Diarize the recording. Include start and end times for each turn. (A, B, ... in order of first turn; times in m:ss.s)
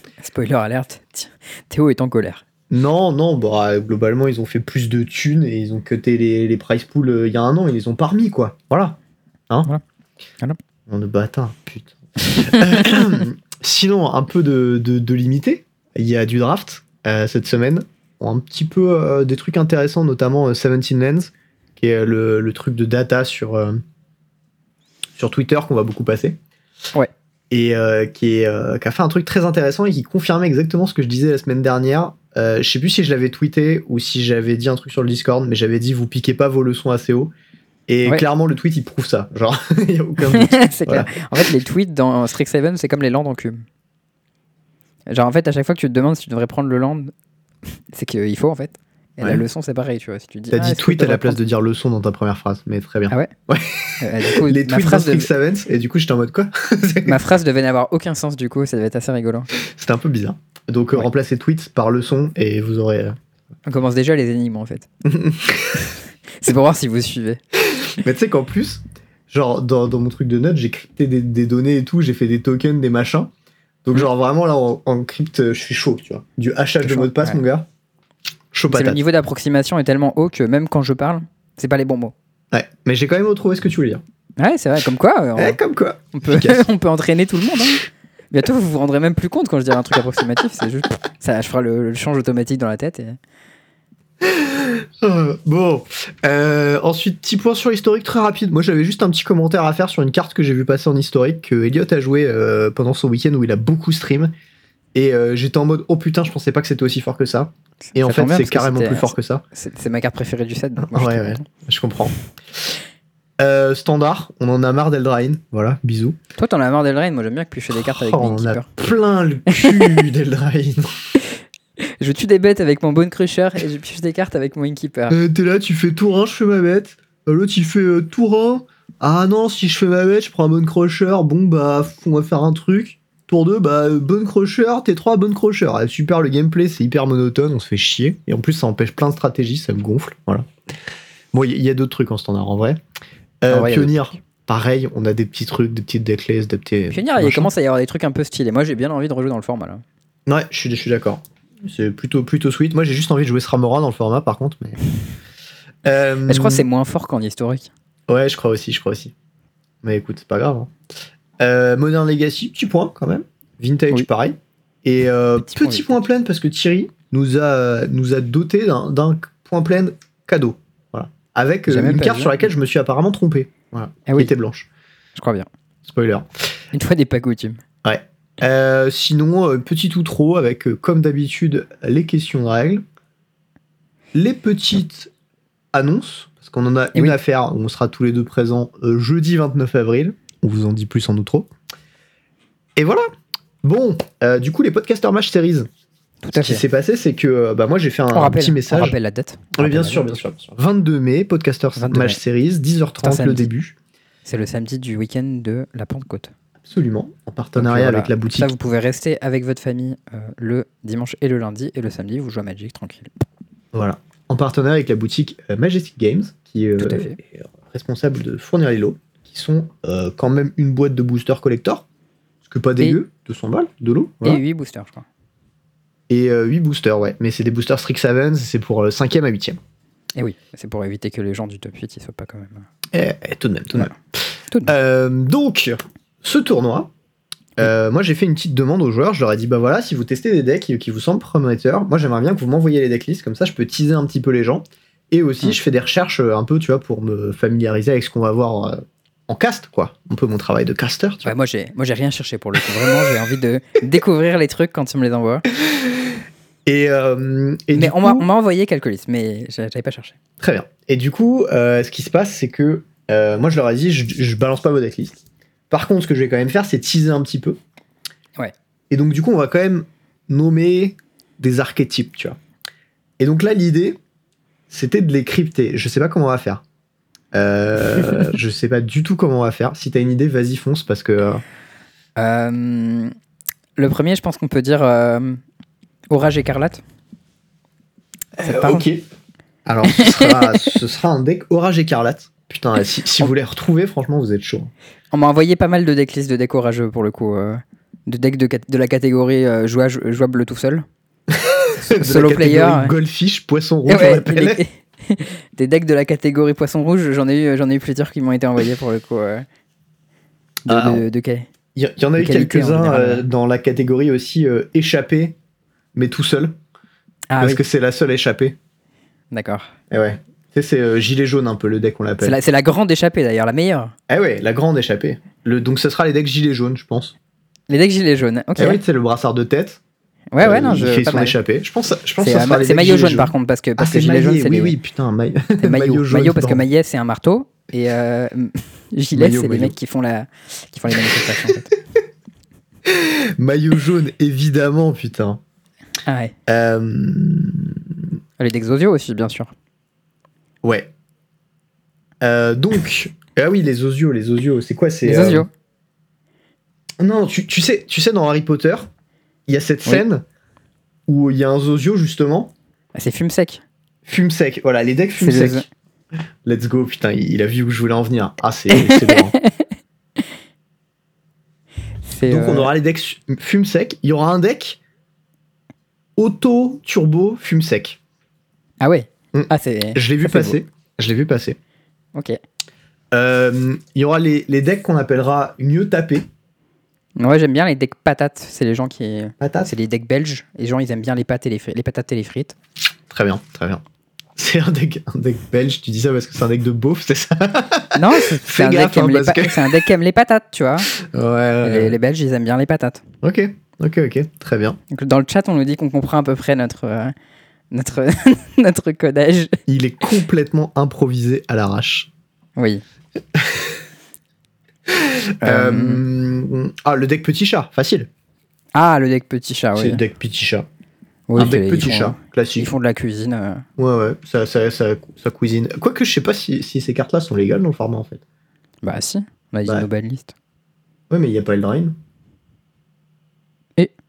0:00.2-0:02.4 A
0:02.7-0:09.0 B
0:10.9-0:23.8 B
0:12.3-0:13.0 A
0:25.2-0:26.4 B
0:27.5-0:37.3 B
0:37.9-0:41.4 B
0:40.2-0:43.6 A
0:45.1-0:47.1 A
0:47.9-0:51.4 A
0:50.5-0:57.2 B
0:54.0-0:55.3 A
0:57.0-0:59.5 A
0:59.6-1:03.2 B
1:03.6-1:04.9 A
1:05.0-1:05.9 B
1:05.7-1:07.4 A
1:07.7-1:13.3 B
1:13.8-1:17.7 B
1:16.8-1:17.4 A
1:18.5-1:19.0 B
1:18.7-1:22.1 A
1:22.5-1:24.0 B
1:24.4-1:25.6 A
1:25.4-1:26.6 B
1:26.1-1:33.2 A
1:34.2-1:44.3 B
1:44.9-1:49.4 B
1:47.9-1:51.5 A
1:50.8-1:52.7 B
1:53.4-1:56.2 B
1:56.4-1:58.7 A
1:57.7-2:00.9 B
1:59.5-2:00.0 A
2:02.0-2:05.2 A
2:05.1-2:20.5 B
2:21.3-2:22.8 B
2:23.4-2:27.5 B
2:23.5-2:24.2 A
2:26.9-2:29.8 A
2:30.3-2:34.8 B
2:35.8-2:36.7 B
2:36.3-2:37.7 A
2:38.1-2:39.1 B
2:39.8-2:40.7 B
2:41.4-2:54.7 B
2:45.4-2:46.0 A
2:51.7-2:52.4 A
2:54.1-2:54.3 A
2:55.2-2:55.5 A
2:55.8-2:56.3 B
2:56.7-2:57.6 A
2:57.8-3:02.8 B
3:04.1-3:05.1 B
3:05.7-3:11.5 B
3:12.8-3:13.1 B
3:13.6-3:15.7 B
3:16.2-3:16.6 A
3:16.3-3:19.0 B
3:18.1-3:20.1 A
3:19.6-3:23.8 B
3:21.8-3:22.2 A
3:23.0-3:23.5 A
3:24.3-3:26.3 A
3:26.6-3:28.5 B
3:27.6-3:33.1 A
3:33.7-3:41.8 B
3:36.8-3:37.2 A
3:42.4-3:44.4 B
3:44.2-3:45.0 A
3:46.1-3:49.6 B
3:50.2-3:52.7 A
3:52.9-3:54.0 B
3:54.7-3:56.9 B
3:57.6-4:11.3 B
4:11.2-4:15.5 A
4:15.6-4:18.3 B
4:17.7-4:20.2 A
4:20.4-4:27.6 B
4:28.9-4:32.4 B
4:33.2-4:34.0 B
4:34.7-4:36.6 B
4:37.3-4:41.4 B
4:42.2-4:43.1 A
4:43.8-4:45.4 A
4:46.1-4:46.8 A
4:48.4-4:49.0 B
4:48.4-4:48.9 A
4:49.7-4:54.7 B
4:49.9-4:50.7 A
4:55.1-5:00.8 A
5:01.3-5:04.6 B
5:01.8-5:02.9 A
5:03.9-5:09.5 A
5:10.6-5:11.5 A
5:10.7-5:11.0 B
5:11.8-5:15.4 B
5:12.2-5:13.3 A
5:16.0-5:16.6 B
5:17.3-5:17.6 A
5:17.4-5:18.6 B
5:19.3-5:19.7 A
5:19.9-5:22.4 B
5:22.2-5:23.9 A
5:24.1-5:27.1 B
5:27.7-5:28.8 A
5:28.6-5:29.8 B
5:30.3-5:31.4 A
5:30.4-5:36.6 B
5:32.2-5:34.8 A
5:35.6-5:41.7 A
5:39.1-5:39.8 B
5:41.1-5:41.5 B
5:42.9-5:45.4 B
5:46.1-5:46.3 A
5:46.5-5:47.8 B
5:48.4-5:49.5 A
5:50.6-5:50.9 B
5:52.2-5:55.5 B
5:55.0-5:55.5 A
5:57.0-5:58.9 B
5:59.5-6:00.2 B
6:01.1-6:02.5 B
6:03.0-6:03.6 A
6:04.1-6:05.6 B
6:05.2-6:05.7 A
6:06.4-6:09.4 B
6:08.7-6:09.6 A
6:12.1-6:12.7 A
6:12.2-6:14.8 B
6:16.2-6:18.0 B
6:18.8-6:20.6 A
6:19.3-6:21.6 B
6:23.1-6:26.3 B
6:27.2-6:32.6 A
6:29.4-6:29.7 B
6:33.1-6:33.8 B
6:34.4-6:39.8 B
6:37.9-6:40.9 A
6:40.9-6:42.0 B
6:41.6-6:43.0 A
6:43.2-6:44.8 B
6:44.9-6:47.2 A
6:47.7-6:49.6 A
6:49.7-6:52.1 B
6:52.6-6:52.8 A
6:53.4-6:53.8 B
6:54.9-6:58.1 B
6:55.4-6:56.1 A
6:58.8-7:00.0 A
6:59.8-7:00.7 B
7:01.3-7:03.6 A
7:01.4-7:02.7 B
7:03.8-7:08.2 B
7:08.8-7:10.4 A
7:11.1-7:11.9 B